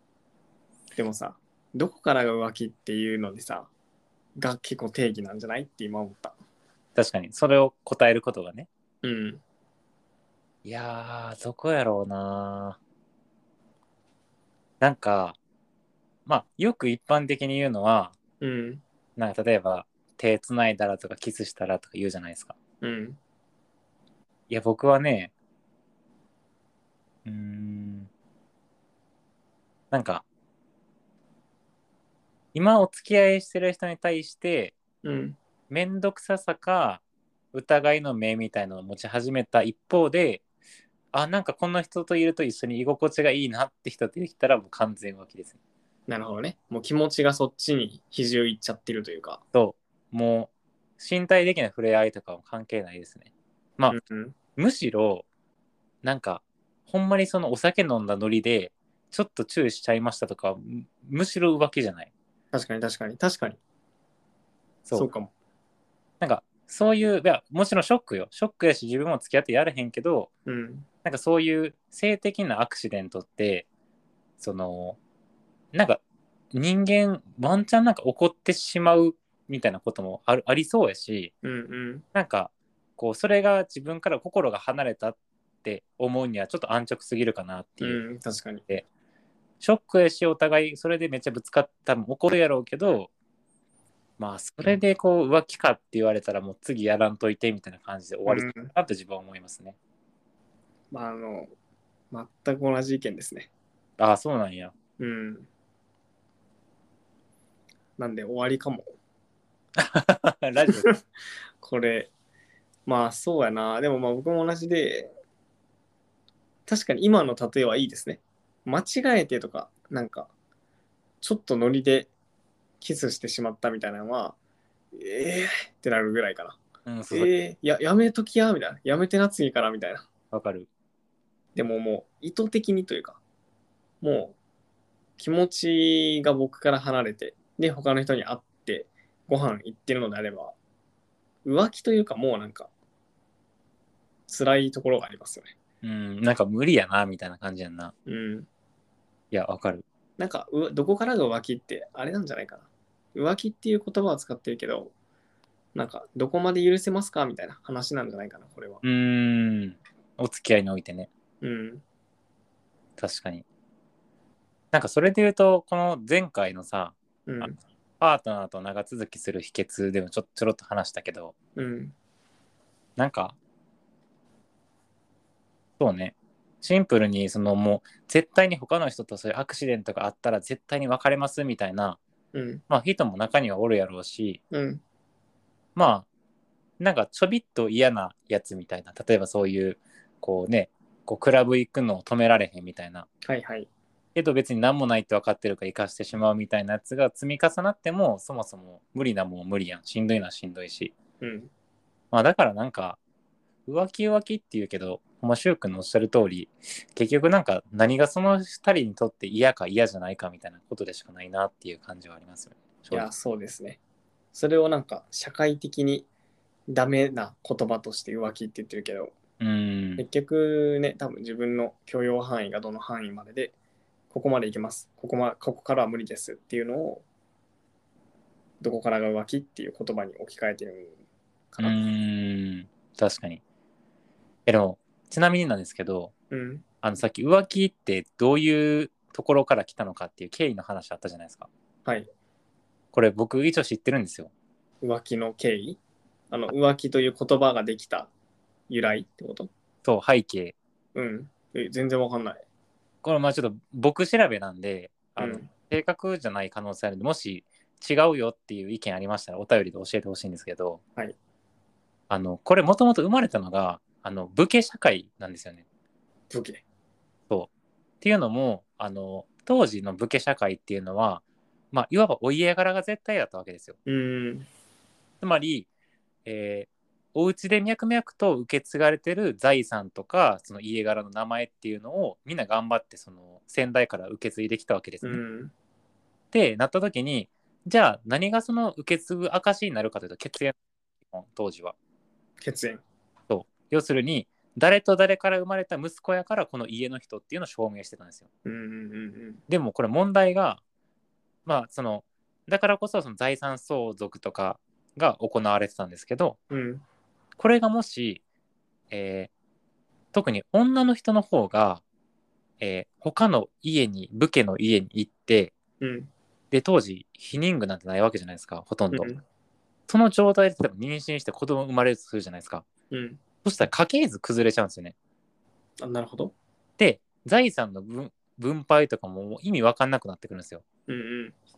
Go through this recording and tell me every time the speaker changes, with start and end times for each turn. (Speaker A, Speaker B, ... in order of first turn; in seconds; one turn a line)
Speaker A: 0.9-3.7
Speaker A: 4.4-6.3
Speaker B: 6.9-8.7
Speaker A: 9.0-9.4
Speaker B: 10.6-12.8
Speaker B: 14.8-15.4
Speaker B: 16.2-18.2
Speaker A: 18.4-18.8
Speaker B: 19.2-22.6
Speaker A: 22.8-23.2
Speaker B: 24.5-25.3
Speaker B: 27.2-28.1
Speaker B: 29.9-30.2
Speaker B: 32.5-34.8
Speaker A: 35.0-35.4
Speaker B: 35.7-37.0
Speaker B: 37.5-40.4
Speaker B: 41.1-45.6
Speaker A: 46.1-49.4
Speaker B: 49.5-54.0
Speaker A: 53.9-54.4
Speaker B: 54.6-55.3
Speaker B: 56.0-62.1
Speaker A: 62.5-63.6
Speaker A: 64.9-65.3
Speaker B: 66.2-70.3
Speaker A: 70.5-70.9
Speaker B: 71.0-73.7
Speaker B: 74.4-75.0
Speaker B: 75.7-76.0
Speaker B: 76.5-81.3
Speaker A: 81.4-82.0
Speaker B: 82.1-88.0
Speaker A: 87.8-88.6
Speaker B: 89.6-93.1
Speaker B: 94.2-99.8
Speaker A: 98.3-98.7
Speaker A: 100.9-101.5
Speaker A: 102.1-103.5
Speaker B: 104.0-104.7
Speaker A: 105.0-105.5
Speaker A: 108.0-108.9
Speaker B: 109.8-110.9
Speaker A: 110.6-111.0
Speaker A: 111.6-112.1
Speaker A: 112.9-115.1
Speaker A: 116.7-120.3
Speaker A: 121.2-122.1
Speaker A: 122.8-124.4
Speaker A: 124.9-126.6
Speaker B: 126.9-127.3
Speaker A: 127.1-130.1
Speaker B: 130.3-130.7
Speaker A: 131.6-133.2
Speaker A: 134.0-134.4
Speaker A: 135.2-140.6
Speaker A: 141.4-142.7
Speaker A: 144.3-145.5
Speaker B: 145.8-147.9
Speaker A: 148.1-148.5
Speaker B: 149.3-149.8
Speaker A: 150.2-154.9
Speaker A: 155.8-158.8
Speaker B: 158.8-161.1
Speaker A: 161.4-161.8
Speaker B: 163.0-163.4
Speaker B: 164.7-167.5
Speaker A: 167.2-167.6
Speaker B: 168.0-171.3
Speaker A: 171.6-171.9
Speaker B: 173.0-173.4
Speaker B: 175.8-182.0
Speaker A: 182.3-182.6
Speaker B: 182.7-184.4
Speaker A: 184.5-184.8
Speaker B: 185.8-186.1
Speaker B: 186.8-193.1
Speaker A: 193.2-193.7
Speaker B: 194.1-200.9
Speaker A: 201.2-201.5
Speaker B: 202.1-203.0
Speaker B: 203.7-213.1
Speaker A: 212.9-213.8
Speaker A: 214.3-216.1
Speaker A: 216.7-219.1
Speaker B: 219.4-220.1
Speaker A: 220.0-223.5
Speaker A: 224.1-227.0
Speaker A: 228.6-230.9
Speaker A: 231.5-231.8
Speaker B: 231.6-233.4
Speaker B: 234.4-236.1
Speaker A: 236.3-236.6
Speaker B: 236.8-241.5
Speaker B: 242.9-244.3
Speaker A: 244.8-245.8
Speaker A: 246.3-248.1
Speaker A: 248.7-249.5
Speaker B: 249.8-250.6
Speaker A: 250.9-252.4
Speaker B: 253.0-260.8
Speaker A: 255.2-255.5
Speaker B: 262.1-265.6
Speaker A: 266.3-266.6
Speaker B: 268.0-273.8
Speaker A: 273.9-274.5
Speaker B: 275.2-275.7
Speaker B: 276.2-285.2
Speaker A: 285.0-285.5
Speaker B: 286.3-291.7
Speaker A: 292.4-292.8
Speaker B: 293.3-298.3
Speaker A: 298.4-299.4
Speaker B: 299.5-300.6
Speaker B: 301.4-306.4
Speaker A: 306.5-306.8
Speaker B: 307.4-308.2
Speaker B: 308.9-309.3
Speaker B: 310.1-311.8
Speaker B: 312.6-315.5
Speaker A: 315.8-316.1
Speaker B: 316.5-319.1
Speaker A: 318.9-319.2
Speaker B: 319.9-322.7
Speaker A: 322.9-323.2
Speaker B: 323.4-324.9
Speaker A: 325.8-326.3
Speaker B: 326.8-330.6
Speaker A: 330.9-331.3